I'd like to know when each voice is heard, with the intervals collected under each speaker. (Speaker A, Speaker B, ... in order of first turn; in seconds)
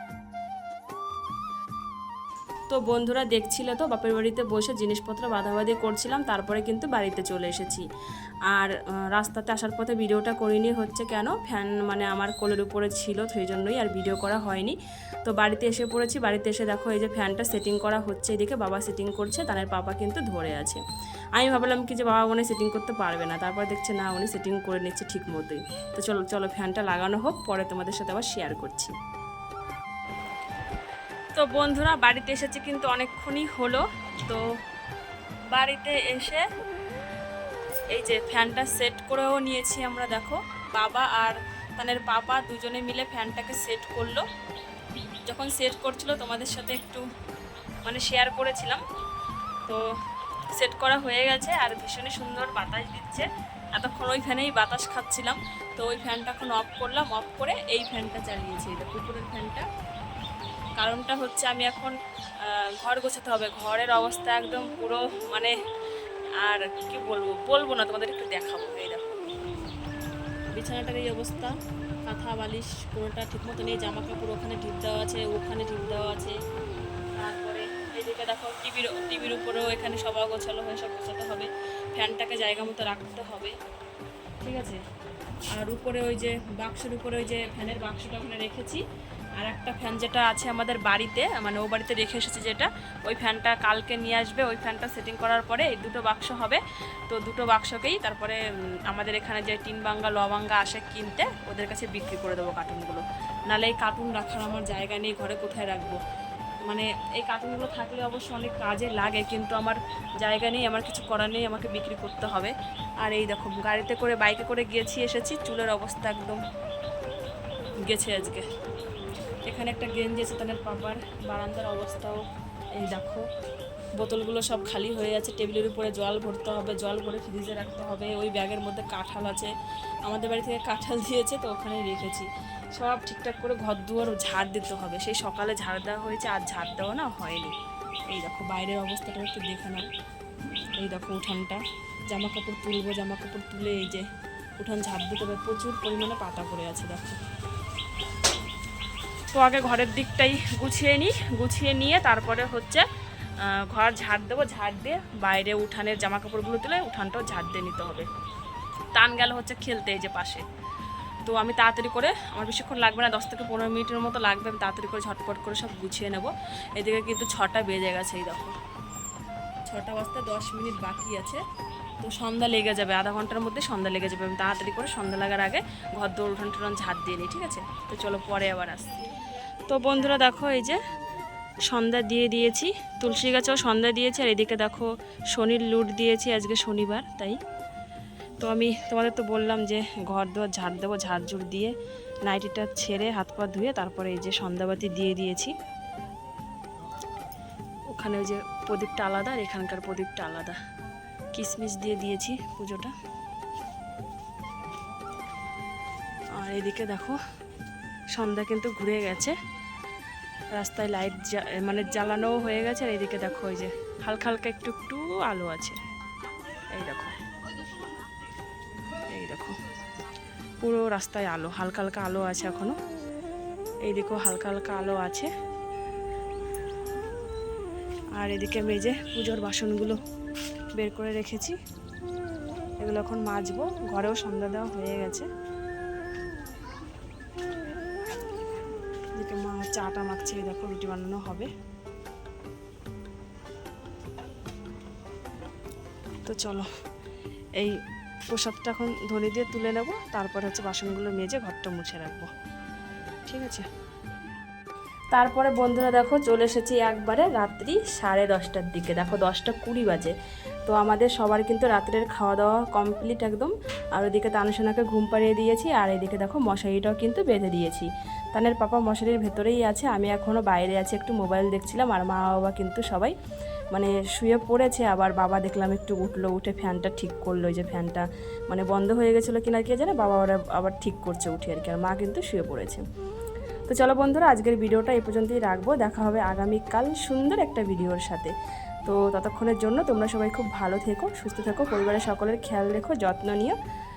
Speaker A: 2.7-7.8, 8.5-20.8, 21.3-28.9, 31.3-34.4, 35.5-36.4, 37.9-44.2, 45.2-47.0, 47.8-48.8, 50.5-59.6, 60.8-65.5, 66.4-69.1, 70.5-71.5, 72.0-76.3, 77.2-83.5, 84.4-84.8, 85.5-88.8, 89.4-106.0, 106.7-116.4, 117.8-118.4, 119.5-122.2, 122.8-123.2, 124.0-129.5, 130.1-137.5, 138.1-139.9, 140.8-144.1, 144.6-147.2, 149.3-152.8, 153.4-158.1, 158.9-160.4, 161.2-168.5, 169.7-171.4, 172.0-179.0, 179.7-180.8, 181.7-187.4, 188.4-191.7, 192.2-195.5, 197.9-200.6, 201.3-202.9, 206.4-207.2, 208.1-209.3, 210.6-215.8, 216.7-217.2, 219.1-219.5, 220.6-222.7, 223.8-225.3, 228.2-230.0, 230.7-231.6, 232.8-235.3, 239.2-241.5, 246.2-246.7, 248.3-252.3, 253.2-253.7, 255.1-260.1, 260.6-273.1, 273.7-282.8, 283.7-288.3, 288.9-293.6